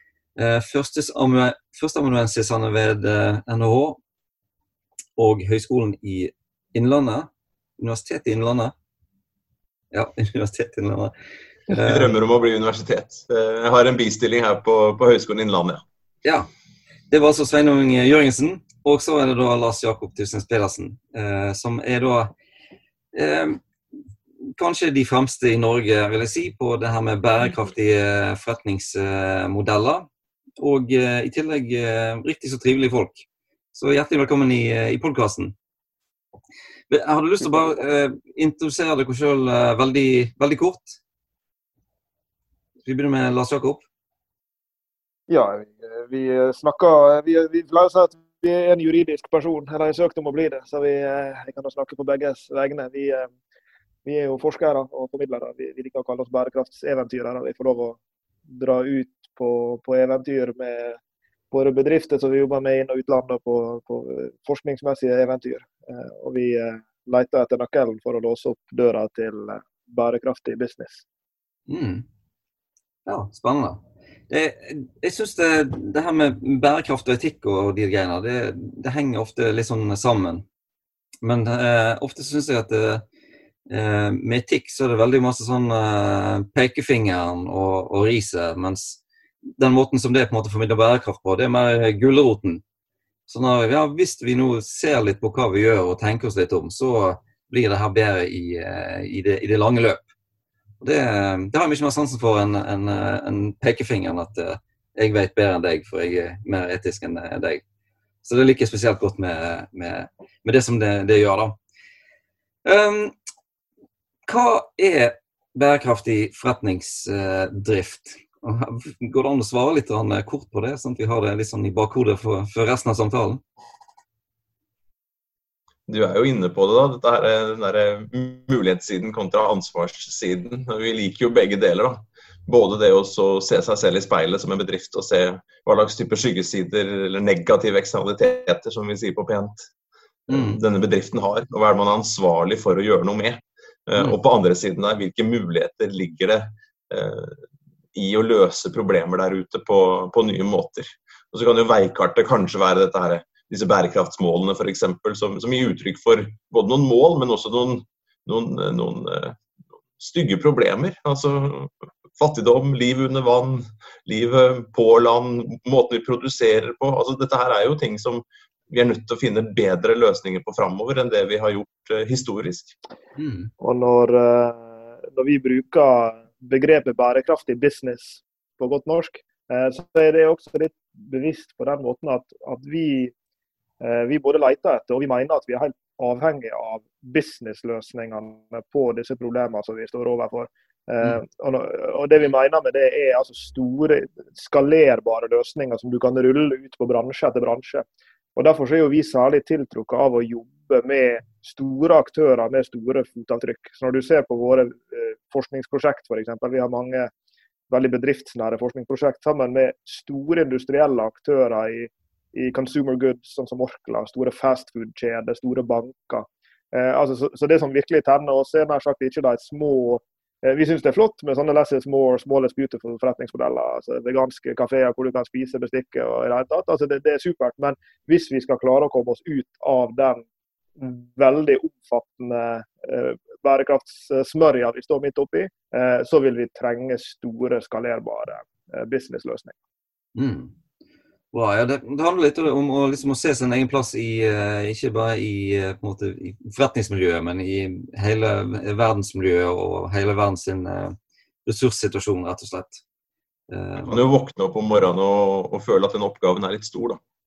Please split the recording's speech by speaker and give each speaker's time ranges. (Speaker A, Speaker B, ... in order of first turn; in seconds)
Speaker A: 0.4-4.0, 5.2-8.7, 9.9-11.1, 11.7-12.2, 16.2-16.5, 17.1-22.3, 23.1-23.6, 24.6-30.1, 30.6-35.5, 36.9-41.0, 42.9-43.8, 71.7-72.0, 73.1-80.5, 81.2-83.0, 83.7-92.6, 93.3-100.0, 100.8-107.6, 108.2-111.6, 112.6-113.2, 114.3-123.4, 140.3-140.6, 173.2-173.5, 240.2-240.5, 241.3-252.8, 253.5-254.0
Speaker B: 11.7-15.8, 125.9-139.7, 140.3-147.4, 147.9-159.4, 160.0-172.8, 253.9-257.0
Speaker C: 45.3-53.3, 54.0-61.0, 61.5-71.0, 173.6-183.1, 183.8-197.8, 198.4-207.1, 207.7-230.2, 230.8-239.5